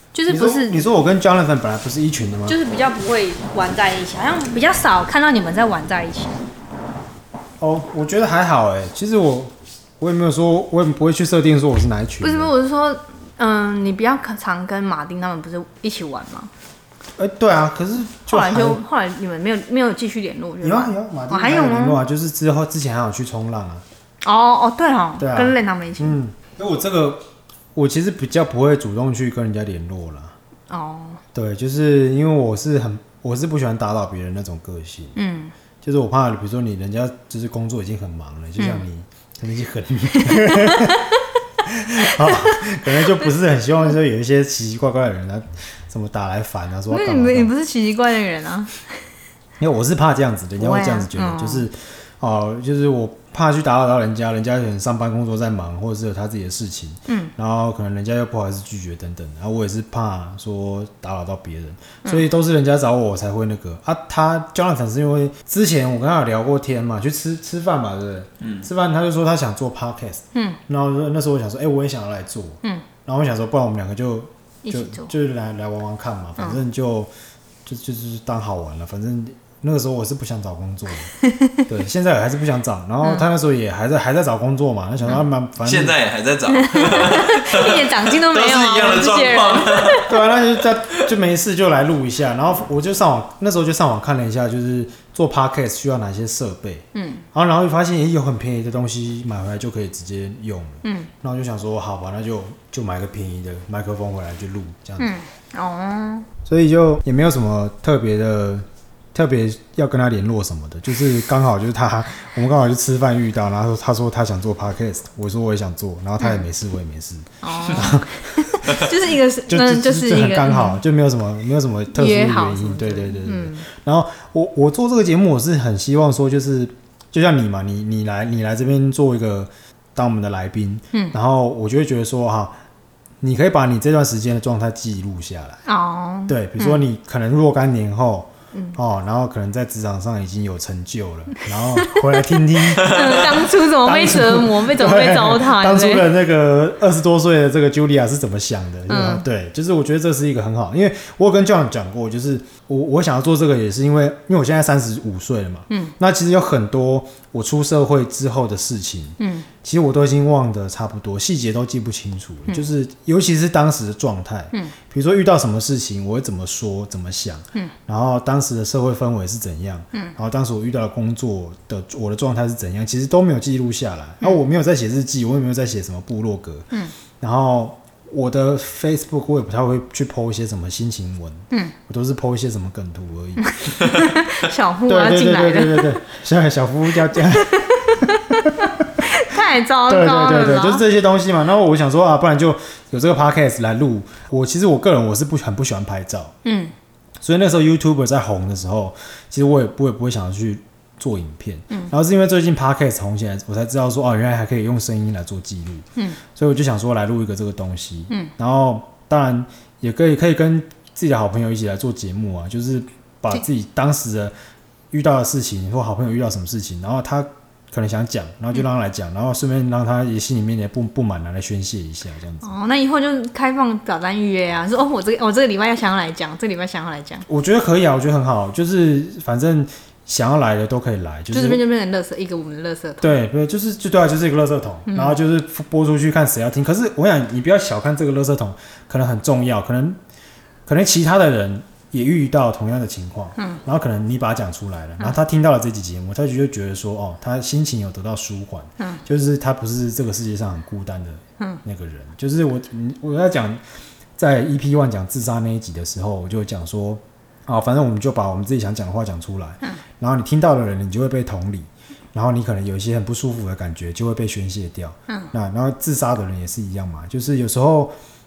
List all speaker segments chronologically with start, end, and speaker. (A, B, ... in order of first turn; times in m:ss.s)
0:00.1-0:00.8 A
0:00.3-0:02.6 B
0:02.5-0:06.4 A
0:07.6-0:12.5 B
0:12.2-0:16.5 A
0:17.2-0:18.8 B
0:18.3-0:22.0 A
0:20.6-0:23.8 B
0:24.2-0:26.2 A
0:25.2-0:30.4 B
0:30.7-0:31.2 A
0:31.3-0:35.2 B
0:35.2-0:35.5 A
0:35.8-0:41.0 B
0:38.6-0:38.8 A
0:40.2-0:41.2 A
0:41.6-0:47.5 B
0:42.1-0:43.1 A
0:46.9-0:48.8 A
0:49.6-1:17.1 B
0:50.6-0:51.7 A
0:57.1-0:57.3 A
1:08.4-1:08.7 C
1:10.3-1:10.6 A
1:14.6-1:15.1 A
1:17.6-1:21.1 B
1:21.2-1:21.6 A
1:21.7-1:26.0 B
1:23.0-1:23.3 A
1:25.6-1:30.1 C
1:26.5-1:30.1 A
1:30.0-1:45.1 B
1:36.9-1:37.2 A
1:40.8-1:41.1 A
1:45.0-1:46.3 A
1:46.4-1:58.9 B
1:57.4-2:00.8 A
1:59.5-2:12.6 B
2:01.9-2:03.7 A
2:13.2-2:15.6 B
2:15.7-2:16.8 A
2:16.3-2:56.7 B
2:18.5-2:18.8 A
2:21.7-2:22.0 A
2:22.6-2:26.1 A
2:28.9-2:29.2 A
2:39.2-2:39.5 A
2:57.2-3:03.5 B
3:03.4-3:06.0 A
3:04.8-3:08.5 B
3:07.2-3:10.8 A
3:09.9-3:16.3 B
3:16.4-3:16.7 A
3:17.2-3:34.3 B
3:34.9-3:42.5 B
3:42.4-3:47.2 A
3:47.3-3:51.6 B
3:51.3-3:53.2 A
3:53.0-4:00.0 B
3:54.9-3:55.2 A
4:00.7-4:13.6 B
4:14.2-4:27.9 B